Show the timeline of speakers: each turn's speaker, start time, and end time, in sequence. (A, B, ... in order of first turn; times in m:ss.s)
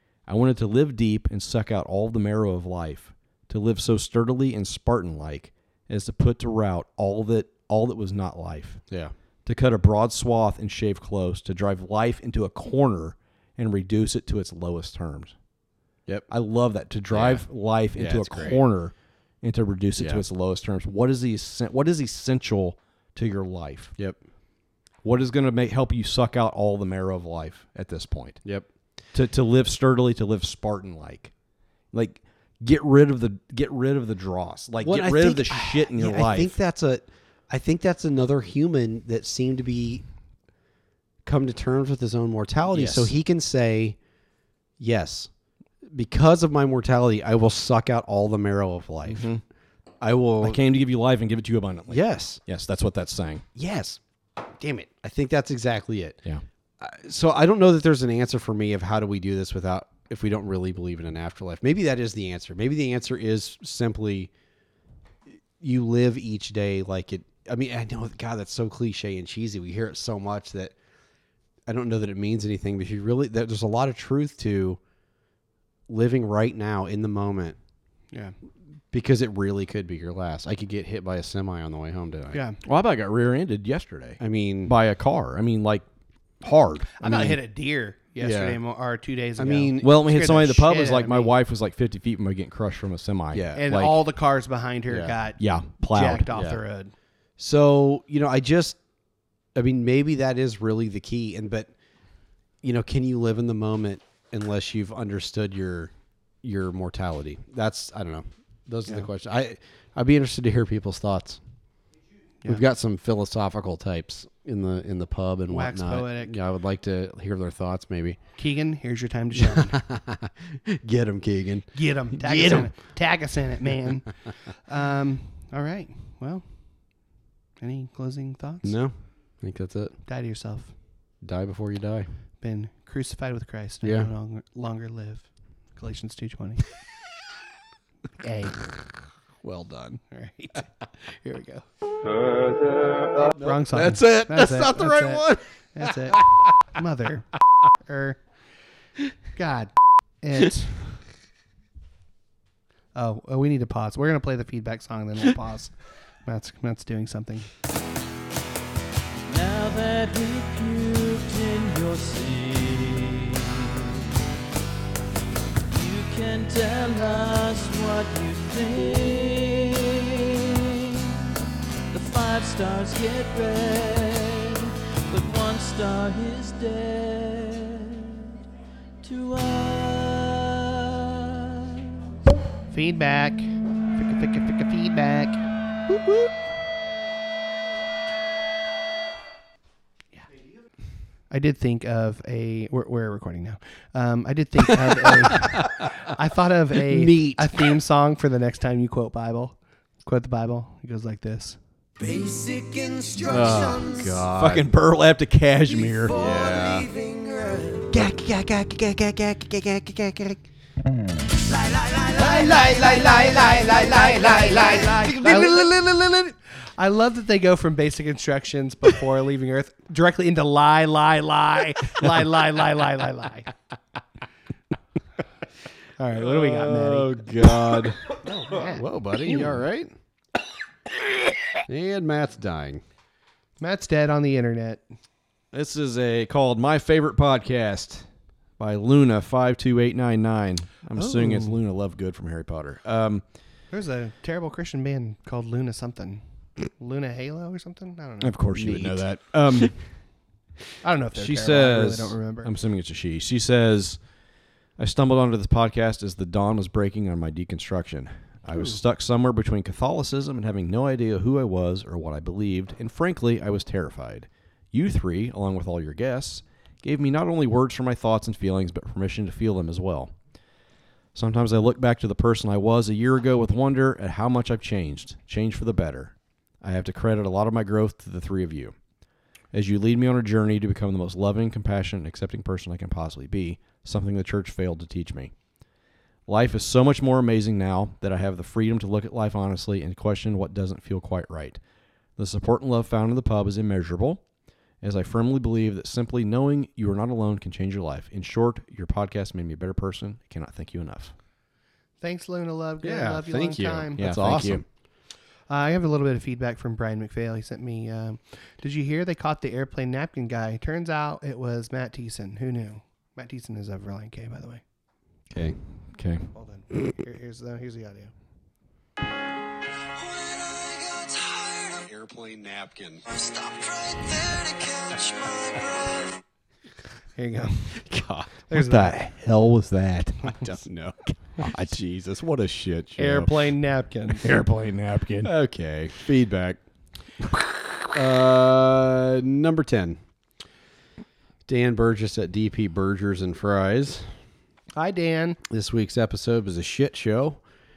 0:00.3-0:08.8 A
0:09.5-0:15.3 A
0:16.3-0:24.0 A
0:17.1-0:18.6 B
0:20.0-0:20.2 B
0:25.0-0:28.5 A
0:29.1-0:31.3 A
0:31.9-0:36.6 A
0:34.8-0:40.0 B
0:41.2-0:44.0 B
0:42.7-0:43.1 A
0:44.8-0:45.3 B
0:45.9-0:49.3 B
0:49.1-0:49.4 A
0:50.0-0:50.6 B
0:50.4-0:53.4 A
0:51.9-0:52.4 B
0:53.6-0:54.0 B
0:54.6-0:56.2 B
0:56.8-1:04.3 B
1:05.6-1:10.8 B
1:11.7-1:14.8 B
1:15.9-1:17.6 B
1:18.9-1:22.4 B
1:22.3-1:22.6 C
1:22.6-1:25.9 A
1:24.2-1:24.8 B
1:26.4-1:27.4 A
1:27.0-1:31.3 C
1:28.2-1:28.6 B
1:29.4-1:30.1 B
1:29.8-1:34.0 A
1:33.3-1:33.7 B
1:33.6-1:36.9 C
1:34.9-1:35.2 B
1:35.4-1:36.3 A
1:36.3-1:36.6 B
1:37.4-1:38.8 B
1:39.6-1:41.7 B
1:42.6-1:45.9 B
1:46.4-1:51.4 B
1:52.4-1:58.2 B
1:55.5-1:56.4 C
1:58.4-1:59.8 C
1:59.3-2:02.7 B
2:01.7-2:07.1 C
2:07.6-2:08.8 C
2:08.6-2:10.0 B
2:10.1-2:10.7 C
2:11.2-2:12.1 B
2:12.4-2:16.7 C
2:13.8-2:14.1 B
2:18.2-2:18.7 C
2:19.4-2:20.0 B
2:20.0-2:21.6 C
2:23.3-2:26.3 B
2:23.4-2:27.3 C
2:27.8-2:28.2 C
2:29.3-2:30.8 C
2:32.9-2:37.5 C
2:39.3-2:44.0 D
2:45.7-2:51.2 D
2:51.9-2:58.3 D
2:59.0-3:01.6 D
3:02.7-3:05.4 C
3:11.3-3:21.6 C
3:16.8-3:17.7 B
3:22.0-3:24.2 E
3:23.3-3:24.7 B
3:24.4-3:26.2 A
3:25.8-3:27.9 E
3:26.1-3:26.9 B
3:27.9-3:30.4 B
3:31.5-3:35.6 E
3:34.3-3:35.7 B
3:35.1-3:43.5 C
3:46.0-3:47.1 C
3:46.2-3:49.9 B
3:48.3-3:49.4 C
3:51.7-3:52.8 B
3:53.6-3:54.9 C
3:55.5-3:58.1 A
3:58.6-4:03.2 A
4:01.0-4:01.6 C
4:03.7-4:08.4 C
4:08.2-4:10.0 A
4:08.6-4:09.0 B
4:10.8-4:12.5 C
4:11.2-4:14.0 A
4:14.8-4:30.2 A
4:31.2-4:38.8 A
4:39.5-4:45.3 A
4:46.3-4:51.6 A
4:52.2-4:54.2 A
4:54.8-5:01.1 A
5:02.0-5:04.0 C
5:02.8-5:04.6 B
5:04.0-5:04.6 A
5:05.5-5:14.6 C
5:15.3-5:15.6 B
5:15.9-5:16.3 A
5:16.3-5:18.1 C
5:21.8-5:23.1 B
5:23.7-5:25.6 B
5:27.2-5:27.8 C
5:27.9-5:28.3 B
5:28.5-5:29.0 C
5:28.5-5:30.5 A
5:30.3-5:33.3 B
5:33.0-5:34.2 C
5:34.2-5:35.3 A
5:35.2-5:36.6 B
5:37.9-5:40.0 B
5:41.5-5:44.1 B
5:44.8-5:45.4 C
5:45.5-5:47.4 B